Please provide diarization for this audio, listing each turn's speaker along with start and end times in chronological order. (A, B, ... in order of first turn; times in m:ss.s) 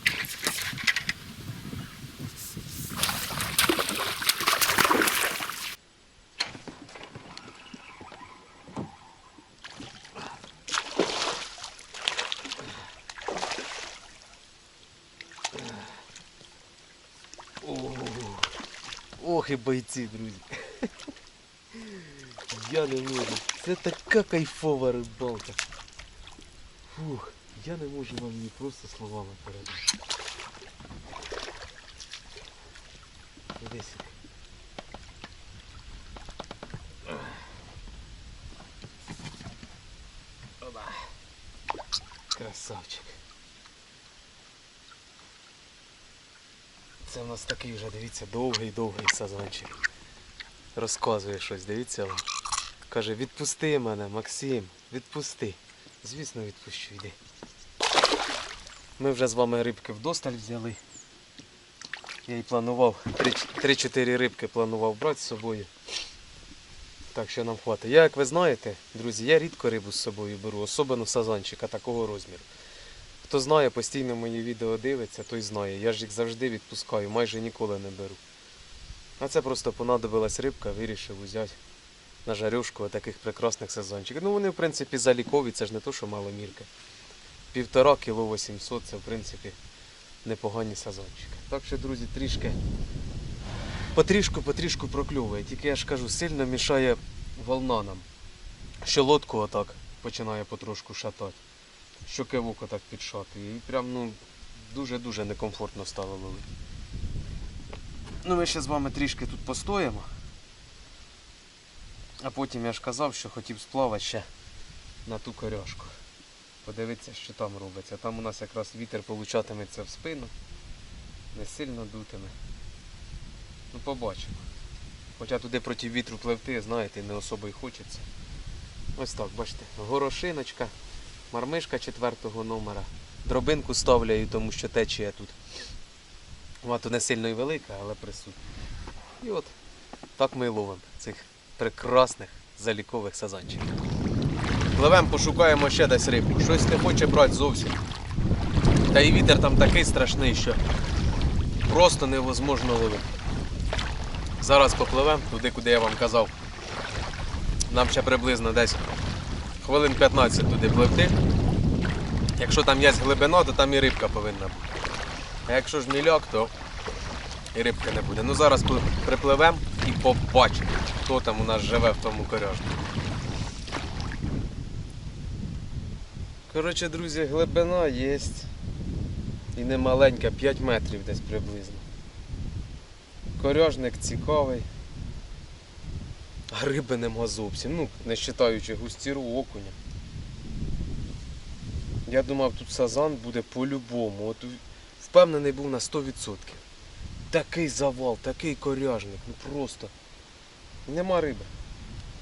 0:17.6-0:18.6 A
0:19.2-0:20.9 A
0:21.7-0:25.6 A
0:26.9-0:29.9 A
0:33.6-0:34.2 A
0:40.6-0:41.0 A
0:42.3-0:43.2 A
0:47.0-0:49.8 A
0:50.7-0:52.2 A
0:52.9-0:57.2 A
0:59.0-1:00.8 A
1:02.2-1:05.7 A
1:07.1-1:12.5 A
1:13.2-1:18.2 A
1:19.2-1:21.6 A
1:22.2-1:26.7 A
1:27.5-1:29.6 A
1:30.2-1:32.6 A
1:33.9-1:38.1 A
1:38.8-1:41.4 A
1:42.0-1:46.5 A
1:48.2-1:50.1 A
1:52.2-1:54.3 A
1:55.0-1:56.0 A
1:56.6-2:00.3 A
2:01.3-2:02.3 A
2:03.7-2:04.5 A
2:05.2-2:08.1 A
2:09.0-2:10.7 A
2:11.3-2:15.4 A
2:16.6-2:18.4 A
2:19.2-2:19.5 A
2:20.2-2:23.7 A
2:24.7-2:27.8 A
2:28.9-2:30.6 A
2:31.6-2:33.1 A
2:34.4-2:36.3 A
2:37.7-2:38.9 A
2:39.6-2:41.2 A
2:42.4-2:44.7 A
2:45.4-2:46.5 A
2:47.5-2:52.9 A
2:56.5-2:58.5 A
2:59.5-3:01.8 A
3:03.4-3:04.7 A
3:06.5-3:09.8 A
3:12.0-3:16.6 A
3:17.3-3:19.9 A
3:20.8-3:21.5 A